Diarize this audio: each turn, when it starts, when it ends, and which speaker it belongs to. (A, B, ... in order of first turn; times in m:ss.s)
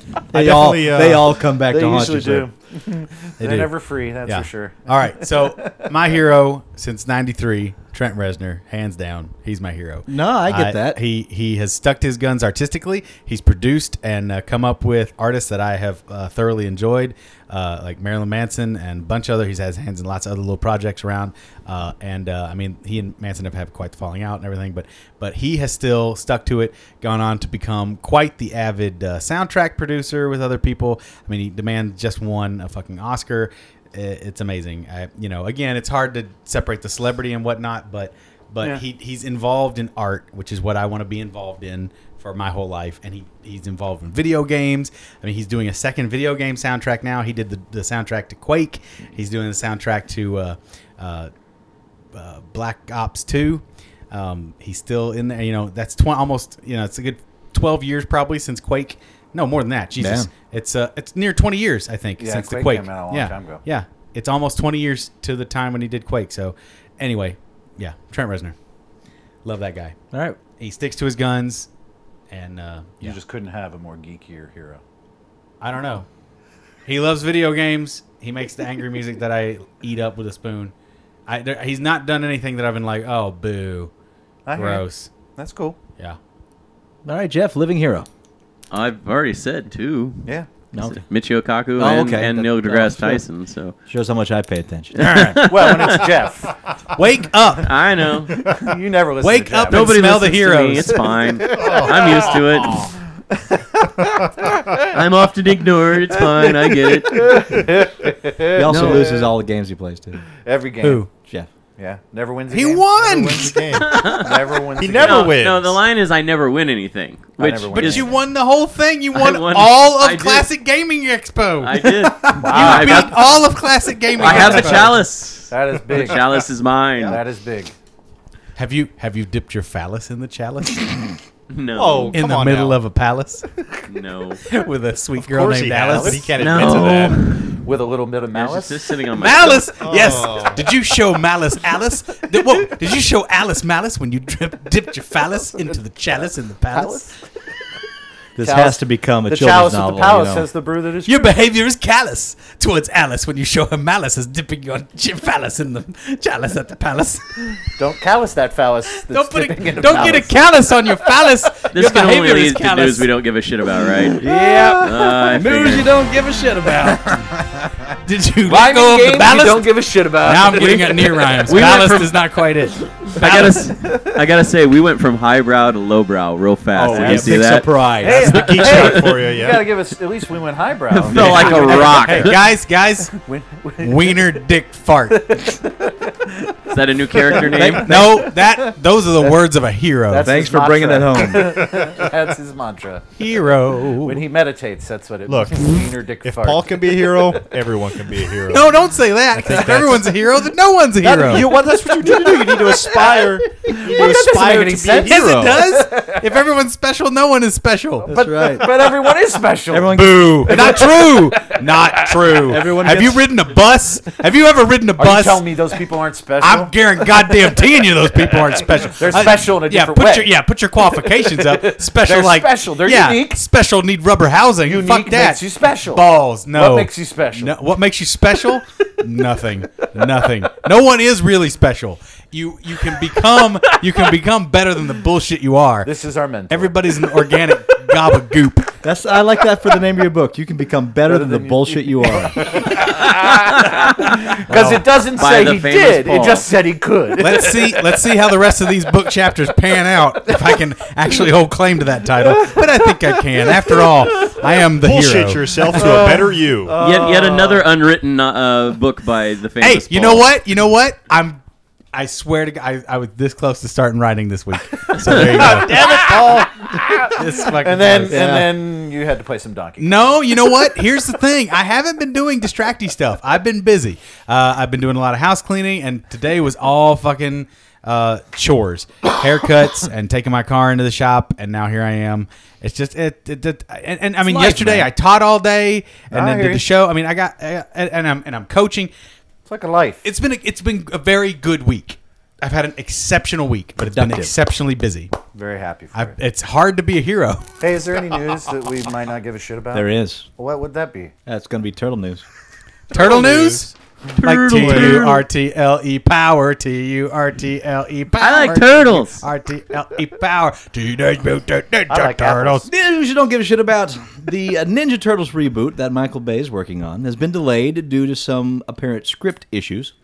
0:00.3-0:02.5 A
0:00.3-0:01.4 B
0:01.6-0:05.8 C
0:03.4-0:51.3 D
0:10.1-0:11.0 A
0:52.1-1:08.5 D
1:00.0-1:00.3 A
1:02.2-1:03.6 C
1:09.4-1:10.0 D
1:10.1-1:10.4 A
1:10.6-1:11.7 D
1:12.3-1:13.2 D
1:13.0-1:14.8 C
1:15.6-1:16.0 D
1:16.8-1:20.7 D
1:21.3-1:23.9 D
1:24.4-1:24.8 C
1:24.5-1:25.1 D
1:25.4-1:25.8 C
1:27.0-1:28.1 A
1:28.7-1:33.8 E
1:30.7-1:31.0 A
1:31.8-1:33.2 A
1:33.9-1:35.0 A
1:35.0-1:36.1 E
1:35.0-1:35.9 D
1:35.0-1:36.5 C
1:36.9-1:37.8 D
1:37.6-1:38.4 E
1:38.5-1:40.1 C
1:39.2-1:41.0 D
1:39.7-1:42.9 E
1:41.4-1:42.0 C
1:41.6-1:41.9 B
1:43.3-1:43.8 C
1:44.9-1:47.5 E
1:47.0-1:49.3 C
1:48.5-1:50.2 A
1:50.4-1:51.1 C
1:50.8-1:51.1 D
1:51.8-1:52.9 C
1:52.5-1:53.8 D
1:53.0-1:55.8 B
1:53.7-1:58.2 E
1:54.1-1:55.3 C
1:57.4-1:58.2 C
1:57.7-2:05.0 D
1:59.1-2:00.5 E
2:01.6-2:03.4 E
2:02.4-2:03.4 C
2:04.2-2:06.4 C
2:04.2-2:07.2 E
2:07.0-2:07.7 C
2:08.6-2:11.2 D
2:11.5-2:12.2 E
2:11.7-2:12.8 B
2:12.1-2:13.5 D
2:13.8-2:14.4 E
2:14.5-2:16.3 D
2:15.2-2:17.2 B
2:15.8-2:16.3 C
2:16.4-2:17.6 E
2:17.6-2:18.8 C
2:18.3-2:19.8 E
2:19.2-2:27.1 D
2:19.8-2:20.6 B
2:26.7-2:27.1 C
2:28.4-2:30.5 A
2:28.4-2:31.3 C
2:31.0-2:37.6 D
2:37.8-2:40.3 C
2:39.0-2:43.1 D
2:41.7-2:44.2 E
2:44.2-2:47.2 A
2:44.8-2:45.9 E
2:48.0-2:53.7 D
2:48.5-2:51.3 C
2:50.5-2:52.1 E
2:53.1-2:59.1 E
2:56.7-2:58.4 A
2:56.9-2:57.3 B
2:58.0-3:02.5 C
2:58.0-2:59.6 B
3:00.9-3:02.4 E
3:01.1-3:03.2 D
3:03.1-3:04.4 C
3:03.8-3:05.4 D
3:05.3-3:06.5 C
3:06.7-3:08.0 E
3:07.1-3:08.3 C
3:07.4-3:08.1 A
3:07.8-3:10.3 D
3:10.1-3:13.0 C
3:10.2-3:11.8 A
3:13.2-3:14.2 D
3:14.0-3:17.3 C
3:15.3-3:18.8 B
3:18.5-3:21.5 D
3:19.3-3:20.2 B
3:19.4-3:19.9 C
3:21.0-3:26.3 C
3:21.1-3:25.5 B
3:25.0-3:28.5 D
3:28.0-3:32.8 C
3:28.0-3:29.1 A
3:29.7-3:30.8 A
3:29.9-3:35.6 D
3:32.4-3:33.2 A
3:35.0-3:36.7 C
3:36.4-3:55.9 D
3:38.3-3:40.3 C
3:41.0-3:43.4 C
3:44.6-3:47.5 C
3:55.8-3:57.0 C
3:56.5-3:58.7 D
3:58.8-4:02.6 A
4:01.0-4:08.1 C
4:04.5-4:04.8 D
4:05.1-4:06.5 E
4:07.2-4:15.5 D
4:14.8-4:16.8 B
4:15.7-4:17.6 C
4:16.8-4:20.3 E
4:19.6-4:21.4 D
4:21.9-4:25.9 D
4:25.0-4:26.5 B
4:25.1-4:30.0 C
4:27.0-4:28.3 D
4:28.0-4:28.6 A
4:29.8-4:48.9 D
4:44.2-4:44.9 A
4:46.1-4:46.6 C
4:49.5-4:50.0 C
4:50.0-4:55.1 D
4:53.9-4:54.3 A
4:55.3-4:56.1 C
4:55.9-4:57.5 D
4:57.6-5:01.1 C
4:59.7-5:00.3 A
5:01.2-5:02.2 A
5:02.9-5:12.6 D
5:02.9-5:03.6 B
5:04.1-5:05.2 E
5:04.6-5:05.0 B
5:08.2-5:09.2 E
5:11.9-5:12.7 C
5:12.7-5:19.9 A